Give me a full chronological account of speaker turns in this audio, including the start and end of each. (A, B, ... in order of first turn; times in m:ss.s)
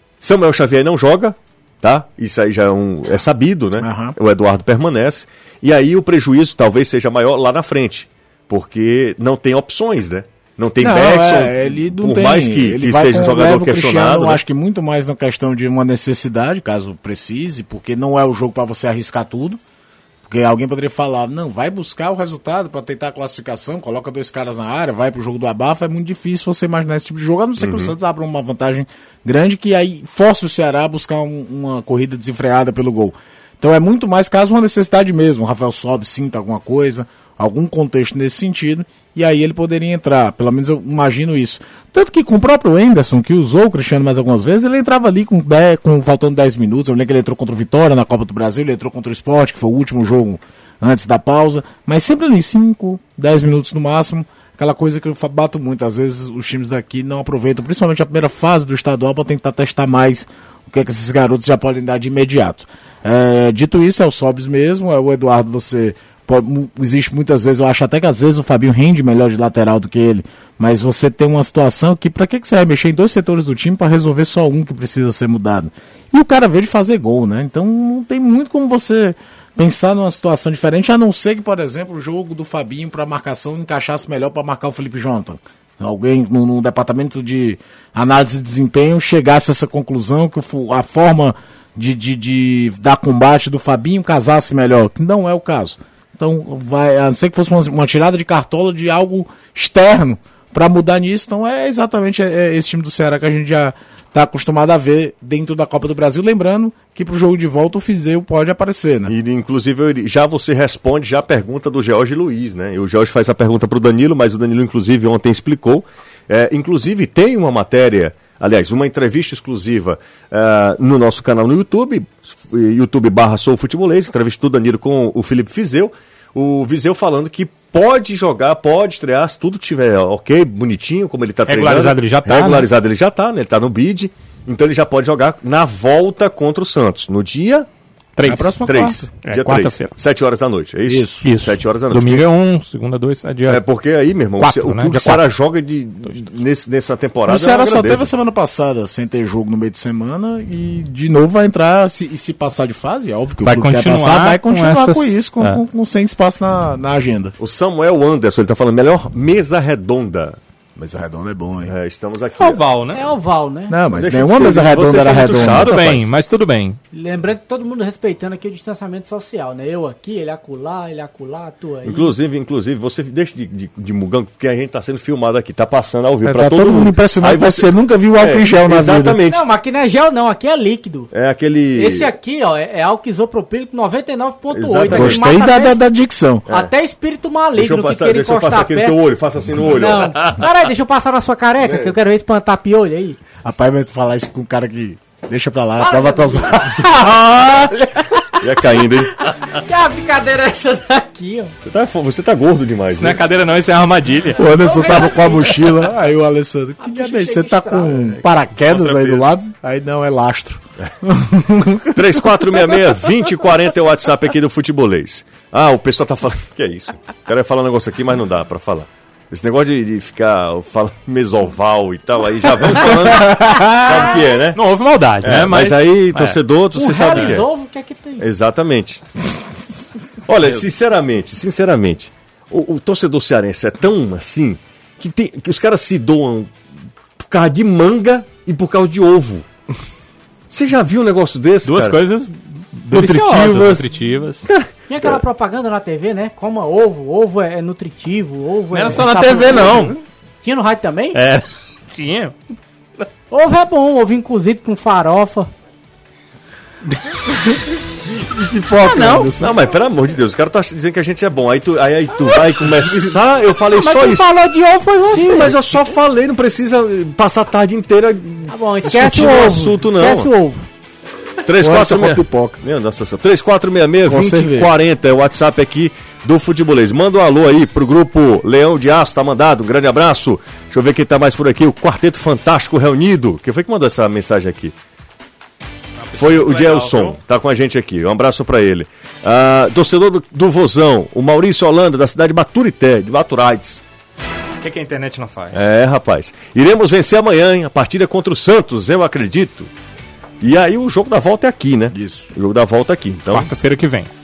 0:00.2-0:14.4 A
0:03.8-0:04.2 B
0:10.8-0:19.6 B
0:20.2-1:49.1 B
0:27.6-0:27.9 A
1:49.1-2:17.7 A
2:11.5-2:12.7 C
2:18.2-2:19.9 C
2:18.2-2:19.0 B
2:18.6-2:22.2 A
2:20.9-2:21.2 B
2:21.2-2:23.6 C
2:23.4-2:28.1 A
2:24.4-2:25.2 C
2:27.2-2:37.4 B
2:33.4-2:35.6 C
2:37.4-2:40.4 A
2:40.8-2:41.7 B
2:41.6-2:42.6 A
2:42.4-2:43.2 C
2:42.9-2:43.8 D
2:43.7-2:45.8 B
2:43.9-2:46.1 A
2:45.4-2:46.8 C
2:46.9-2:52.1 D
2:51.8-2:59.4 A
2:56.2-2:59.2 B
2:59.3-3:01.1 D
3:01.1-3:02.1 A
3:01.7-3:05.8 D
3:04.5-3:05.3 A
3:04.9-3:06.4 B
3:06.5-3:09.0 D
3:07.5-3:10.4 A
3:09.6-3:13.2 D
3:11.6-3:12.0 A
3:13.4-3:18.2 B
3:15.8-3:16.8 D
3:18.4-3:19.3 A
3:19.2-3:21.5 D
3:21.6-3:23.2 A
3:22.9-3:24.5 C
3:24.3-3:32.1 B
3:24.4-3:25.8 D
3:26.8-3:28.1 D
3:28.7-3:29.1 A
3:31.9-3:44.6 A
3:42.8-3:46.4 C
3:45.2-3:47.5 A
3:46.7-3:48.2 D
3:48.2-3:49.0 A
3:50.2-3:56.5 A
3:57.2-3:59.5 A
4:00.5-4:02.0 A
4:01.6-4:04.5 C
4:02.9-4:03.8 A
4:04.4-4:05.2 A
4:04.9-4:11.2 D
4:08.7-4:10.0 C
4:11.1-4:12.3 C
4:13.3-4:15.5 D
4:17.2-4:17.7 B
4:18.2-4:19.5 B
4:18.8-4:19.3 D
4:19.3-4:24.2 A
4:23.7-4:25.6 D
4:25.0-4:30.3 A
4:28.5-4:30.7 D
4:31.4-4:44.7 A
4:31.6-4:32.6 B
4:34.0-4:34.7 B
4:46.0-4:47.2 C
4:46.2-4:53.8 A
4:54.6-4:55.6 C
4:55.5-4:59.7 A
5:00.4-5:03.5 A
5:01.9-5:02.3 B
5:03.3-5:04.1 C